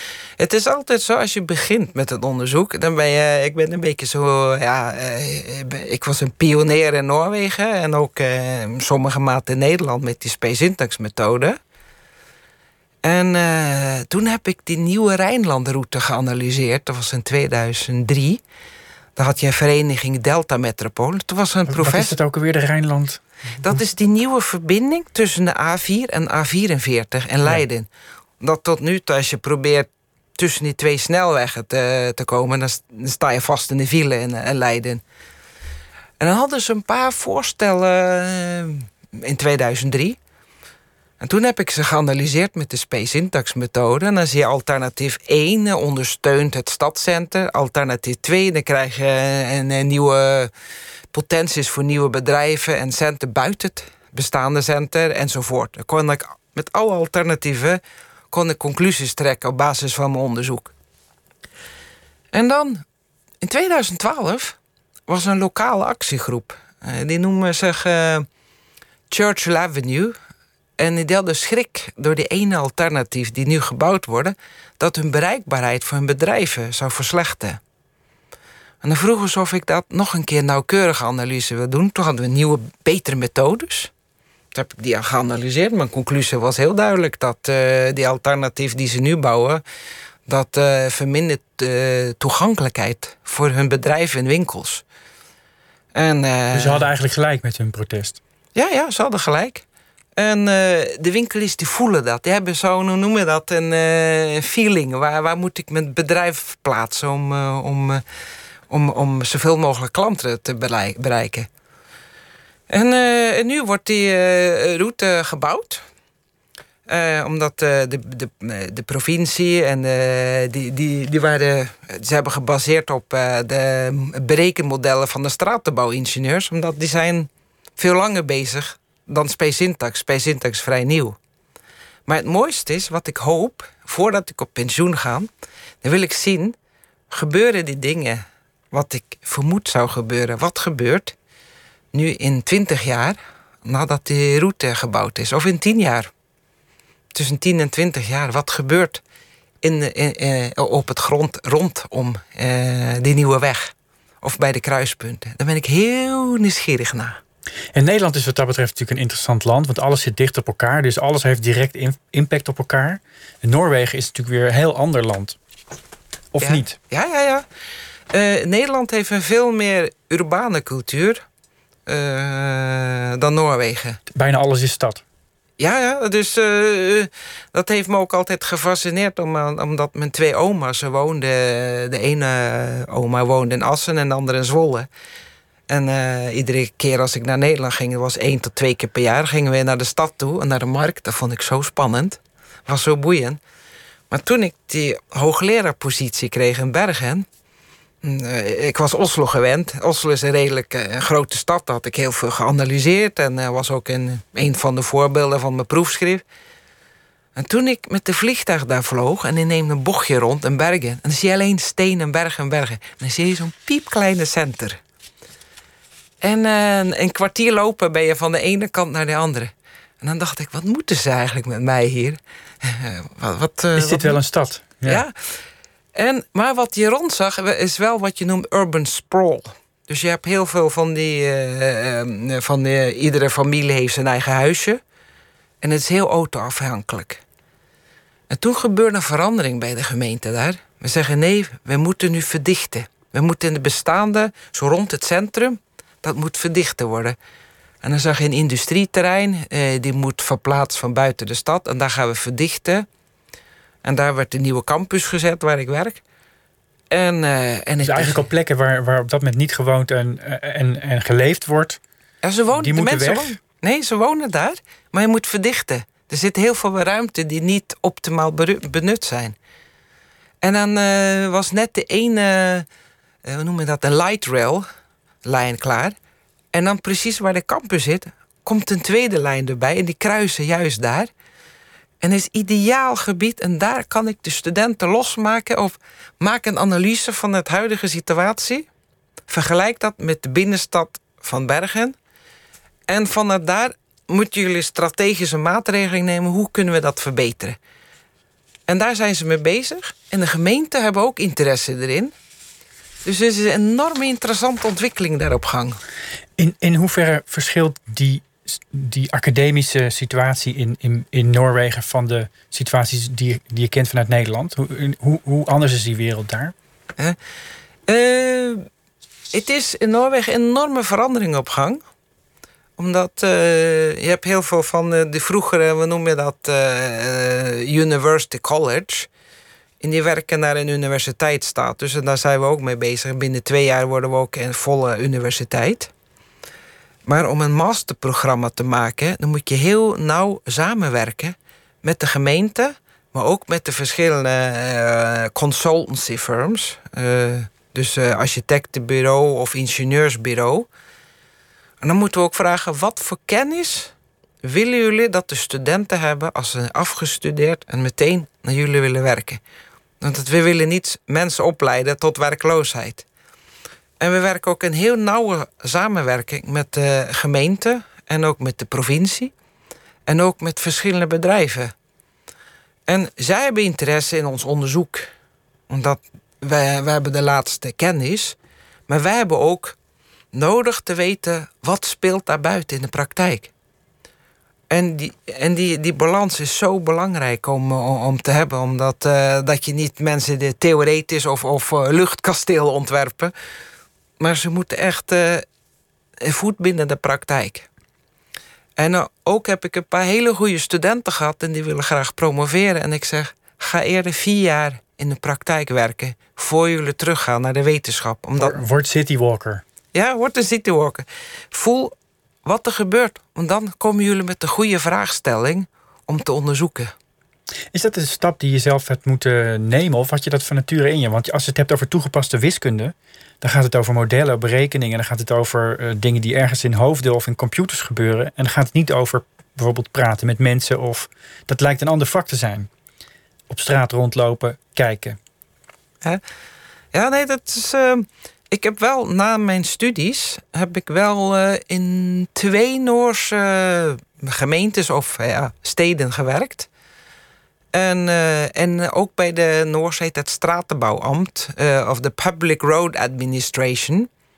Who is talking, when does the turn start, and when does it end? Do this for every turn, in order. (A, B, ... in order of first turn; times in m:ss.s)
0:00.4-0:11.6 A
0:13.0-0:18.4 A
0:19.2-0:22.1 A
0:21.7-0:23.8 B
0:23.6-0:27.9 A
0:28.4-0:35.0 A
0:36.2-0:40.2 A
0:41.2-0:50.5 A
0:51.1-1:00.7 A
1:02.3-1:02.8 A
1:03.4-1:08.3 A
1:09.1-1:10.2 A
1:10.8-1:17.6 A
1:18.8-1:23.9 A
1:24.5-1:29.6 A
1:30.3-1:34.8 A
1:35.9-1:36.9 A
1:36.5-1:38.2 B
1:38.6-1:39.6 A
1:40.2-1:48.0 A
1:48.7-1:51.5 A
1:52.7-1:55.8 A
1:56.9-2:11.2 A
2:12.1-2:15.3 A
2:15.8-2:16.6 A
2:17.1-2:21.1 A
2:21.9-2:26.1 A
2:27.1-2:29.0 A
2:29.6-2:37.2 A
2:37.7-2:45.4 B
2:46.3-2:46.8 B
2:46.4-2:47.4 A
2:48.1-2:51.2 A
2:51.9-2:54.0 A
2:54.1-2:55.0 B
2:55.6-3:04.9 A
3:05.7-3:13.4 A
3:14.1-3:17.3 A
3:18.0-3:26.2 A
3:27.4-3:34.8 A
3:36.2-3:44.2 A
3:43.8-3:45.0 B
3:44.8-3:45.1 A
3:46.0-3:54.8 A
3:55.6-3:57.2 A
3:58.3-4:07.2 A
4:07.8-4:12.9 A
4:13.8-4:16.0 A
4:16.9-4:18.2 A
4:17.8-4:21.8 B
4:22.2-4:29.4 A
4:22.6-4:23.4 B
4:30.4-4:32.7 A
4:33.2-4:34.7 A
4:35.2-4:36.0 A
4:36.5-4:41.1 A
4:42.0-4:48.7 A
4:49.3-4:52.0 A
4:52.9-4:57.6 A
4:58.7-5:02.1 A
5:03.0-5:05.8 A
5:06.4-5:16.5 B
5:17.9-5:18.7 A
5:19.3-5:21.8 A
5:22.8-5:29.1 A
5:29.8-5:35.9 A
5:37.1-5:50.7 A
5:51.8-5:53.9 A
5:54.4-5:59.4 A
6:00.0-6:03.0 A
6:04.0-6:09.3 A
6:10.1-6:11.7 A
6:12.9-6:15.1 A
6:15.7-6:18.4 A
6:18.9-6:19.8 A
6:20.3-6:23.5 A
6:24.7-6:33.3 A
6:34.2-6:35.4 A
6:36.2-6:37.7 A
6:38.8-6:48.6 A
6:48.4-6:49.6 B
6:49.9-6:51.9 A
6:52.4-6:56.9 A
6:57.7-7:12.7 B
7:13.5-7:15.2 B
7:16.9-7:26.7 A
7:27.7-7:34.1 A